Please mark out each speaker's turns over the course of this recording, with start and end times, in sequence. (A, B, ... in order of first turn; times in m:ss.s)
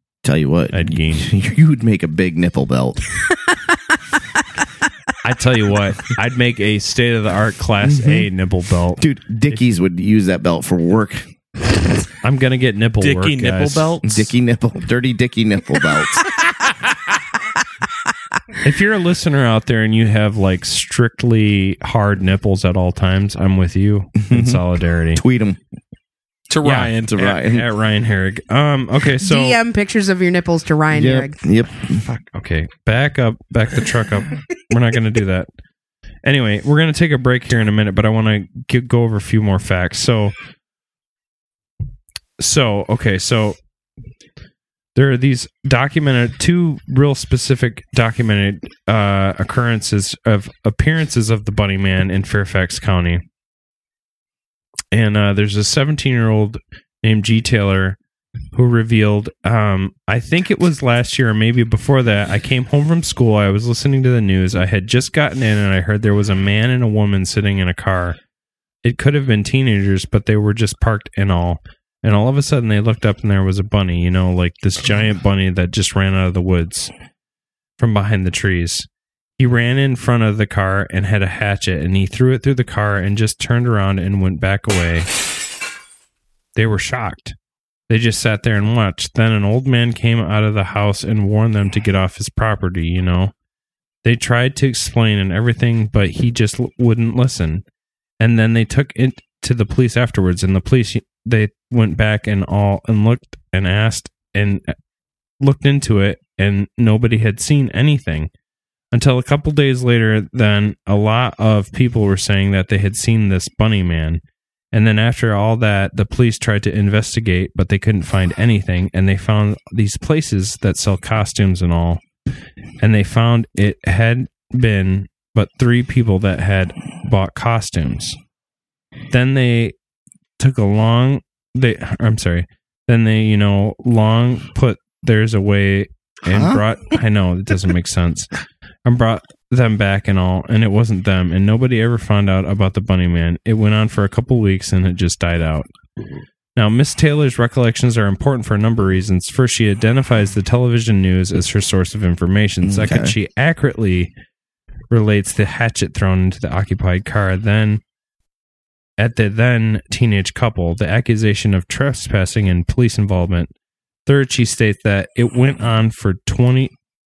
0:00.2-0:03.0 A
0:00.7-0:01.3 B
0:05.2-0:09.6 B
0:07.8-0:08.3 A
0:09.0-0:11.3 A
0:12.2-0:14.2 B
0:13.0-0:14.3 C
0:14.0-0:16.4 A
0:18.6-0:25.2 B
0:24.2-0:24.6 A
0:25.1-0:25.6 A
0:26.5-0:27.4 C
0:26.6-0:29.6 B
0:27.1-0:27.6 A
0:29.2-0:31.4 D
0:30.9-0:32.0 A
0:32.0-0:35.5 B
0:36.2-0:40.3 B
0:42.4-0:43.6 B
0:44.9-0:53.2 B
0:54.9-0:58.0 B
0:58.5-1:08.2 B
1:08.8-1:16.9 B
1:17.8-1:25.1 B
1:26.5-1:27.4 B
1:27.9-1:33.3 B
1:34.0-1:37.6 B
1:38.2-1:44.7 B
1:45.4-1:48.3 B
1:48.9-2:02.0 B
2:02.8-2:08.2 B
2:09.1-2:09.7 B
2:10.4-2:18.3 B
2:16.3-2:16.6 A
2:18.8-2:25.7 B
2:26.6-2:34.1 B
2:32.6-2:33.1 A
2:34.9-2:37.8 B
2:39.0-2:43.5 B
2:44.0-2:46.7 B